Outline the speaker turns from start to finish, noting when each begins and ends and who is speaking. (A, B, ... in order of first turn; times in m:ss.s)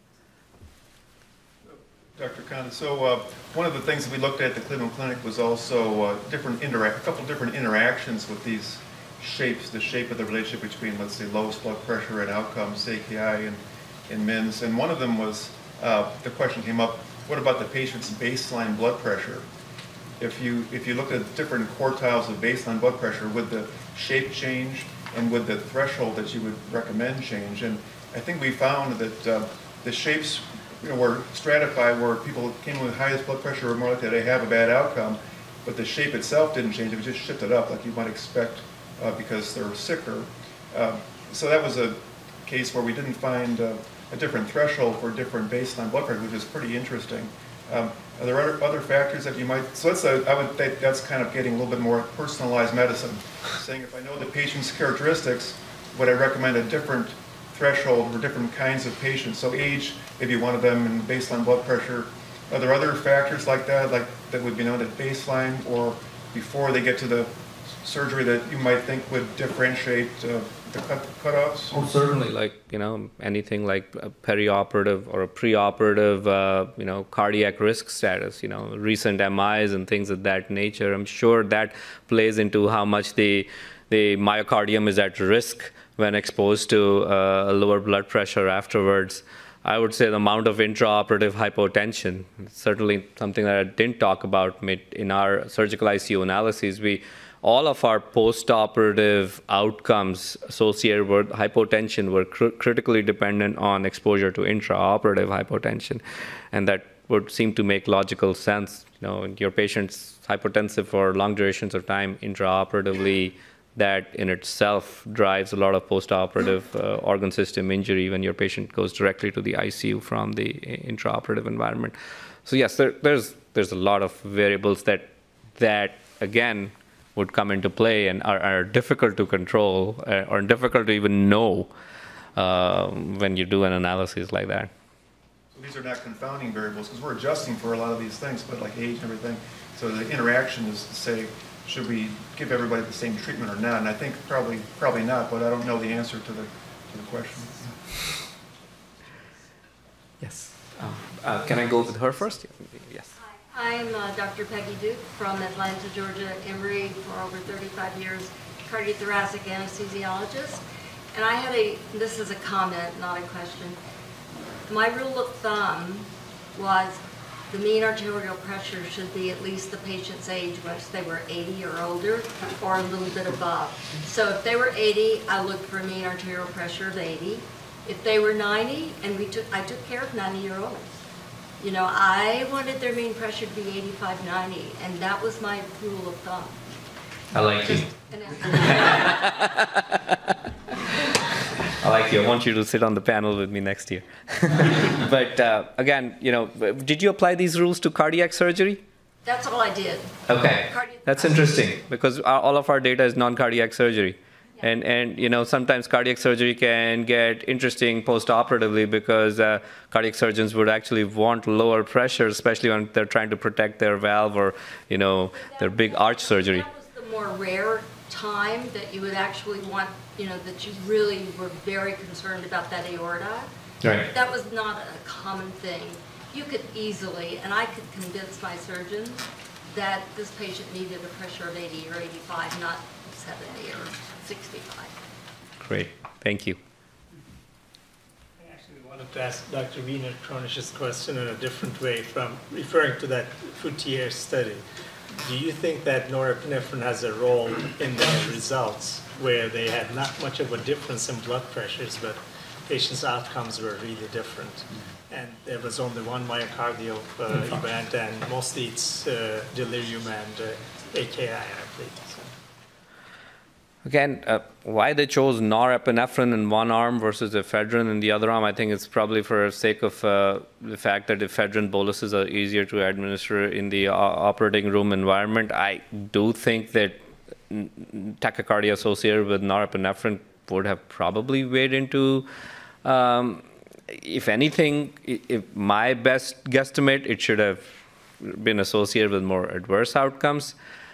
0:02.2-0:19.5 A
0:20.2-1:11.7 A
1:11.7-2:02.0 B
2:02.5-2:11.7 B
2:12.4-2:14.7 B
2:15.5-2:27.8 A
2:30.2-2:33.1 B
2:33.4-2:40.6 C
2:41.1-2:43.8 C
2:44.7-3:01.0 C
3:01.6-3:06.6 C
3:07.3-3:07.9 B
3:07.7-3:09.2 C
3:08.5-3:10.3 B
3:11.7-3:18.8 B
3:19.2-3:21.4 C
3:20.3-3:36.7 B
3:35.5-3:43.5 C
3:43.8-3:44.1 B
3:44.1-3:54.9 C
3:55.6-3:56.6 B
3:58.4-4:04.6 D
4:05.2-4:22.3 D
4:23.8-4:37.0 B
4:37.5-4:42.3 B
4:42.8-4:47.6 B
4:48.2-4:50.6 B